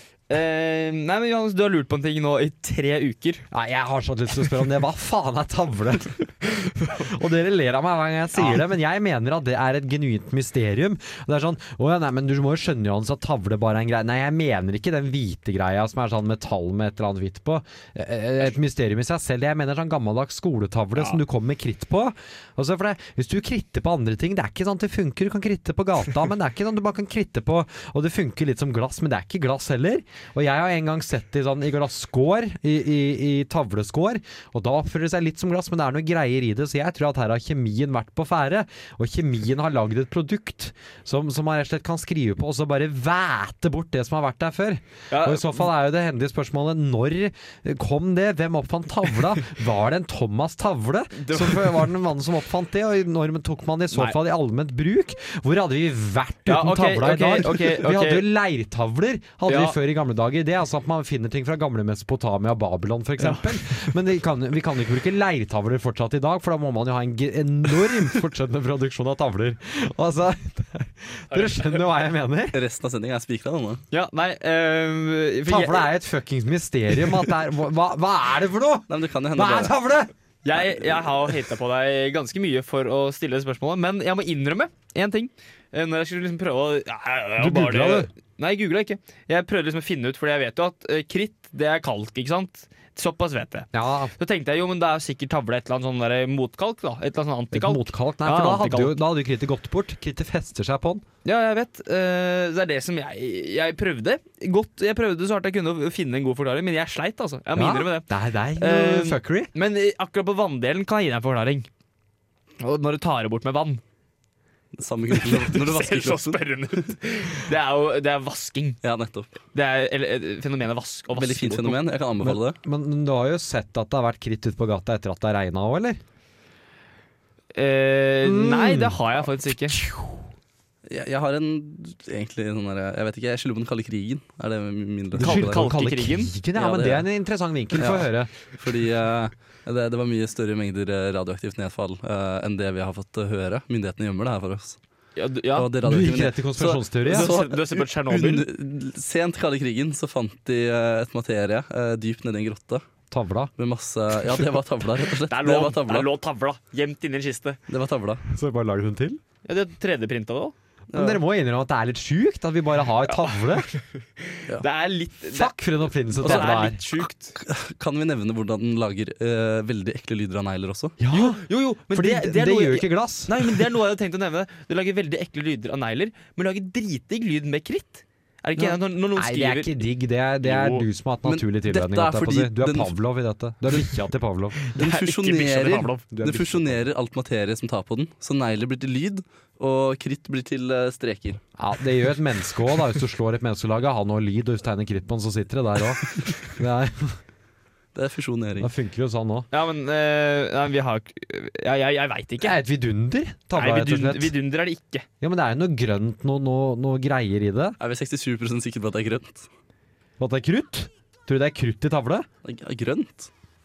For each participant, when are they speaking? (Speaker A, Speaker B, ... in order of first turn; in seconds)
Speaker A: 0.3-3.5, 45.1-45.6, 51.1-51.8, 53.9-54.2, 56.5-58.3, 59.5-59.8, 63.2-63.9, 71.3-71.7, 73.9-75.9, 80.4-99.0, 101.2-111.7, 112.6-113.8, 115.1-118.8, 119.5-121.8, 127.5-129.8, 135.2-136.3, 145.2-145.7, 146.6-148.4, 155.2-157.6, 159.4-160.5, 163.1-165.5, 166.1-167.3, 171.1-179.9, 180.4-180.8, 184.6-186.1, 199.5-202.6, 203.6-205.1
Speaker B: 3.5-72.6, 75.5-80.1, 87.4-88.1, 93.7-94.1, 97.5-101.0, 107.5-109.5, 122.2-126.0, 128.2-130.3, 135.1-138.4, 145.8-147.3, 153.1-153.5, 158.2-159.2, 160.9-163.7, 165.3-166.8, 171.0-173.5, 178.6-184.6, 186.1-186.9, 191.6-197.2, 198.6-199.5, 202.4-204.3, 205.2-207.8, 210.2-212.3
Speaker C: 72.5-73.8, 78.9-79.8, 114.8-116.9, 118.8-119.3, 121.1-122.6, 130.9-135.7, 136.6-137.1, 137.7-144.8, 145.5-152.8, 153.6-156.1, 157.7-158.2, 160.9-161.2, 166.2-166.7, 167.3-171.0, 181.2-182.9, 183.7-183.9, 184.7-191.4, 197.9-198.7, 207.8-209.5, 212.4-213.3